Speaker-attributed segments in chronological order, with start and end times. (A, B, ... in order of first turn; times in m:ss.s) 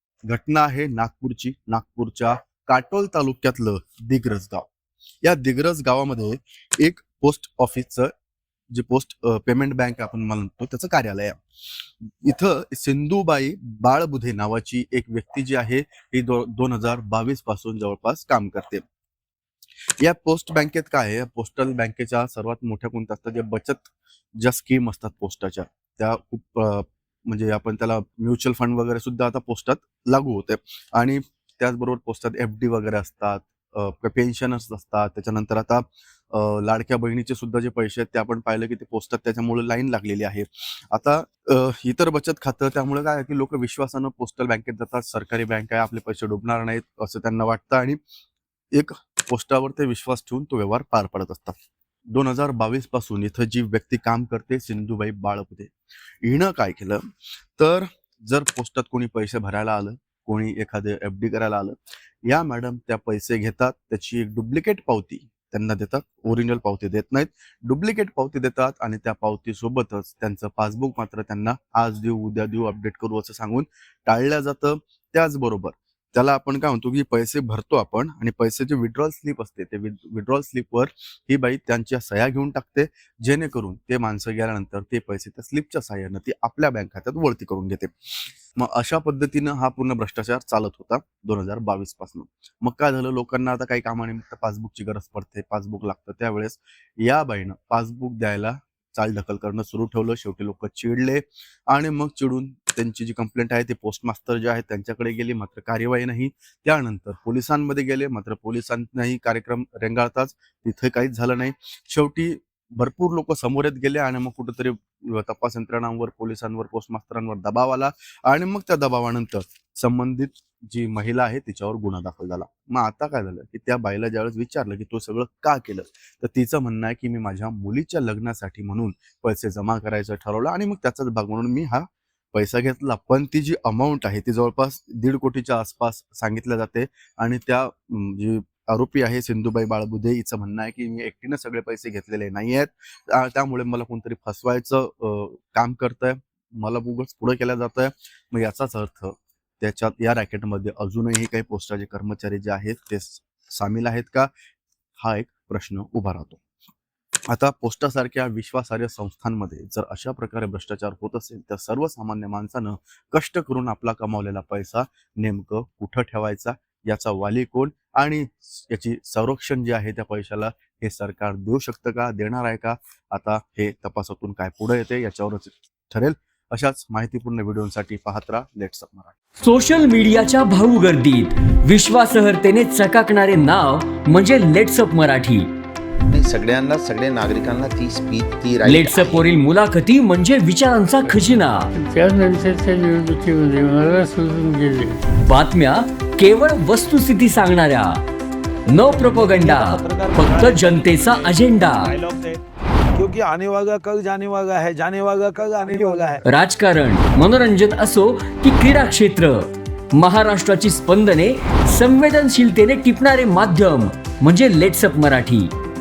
0:00.3-0:04.7 A
0:05.2-0:08.1 A
0:08.7-0:11.4 A
0:12.2-0:18.8 A
0:20.0-0:23.9 A
0:24.4-0:48.0 A
0:48.7-0:55.7 A
0:56.2-0:57.0 A
0:57.6-1:27.9 A
1:28.6-2:34.3 A
2:35.0-2:36.4 A
2:37.3-2:59.1 A
2:59.4-3:05.5 B
3:06.1-3:09.3 C
3:08.6-3:11.7 B
3:11.7-3:15.0 D
3:15.3-3:18.0 B
3:18.7-3:22.0 B
3:18.8-3:22.4 E
3:23.0-3:26.2 E
3:25.7-3:26.2 D
3:26.2-3:29.4 B
3:30.0-3:35.5 B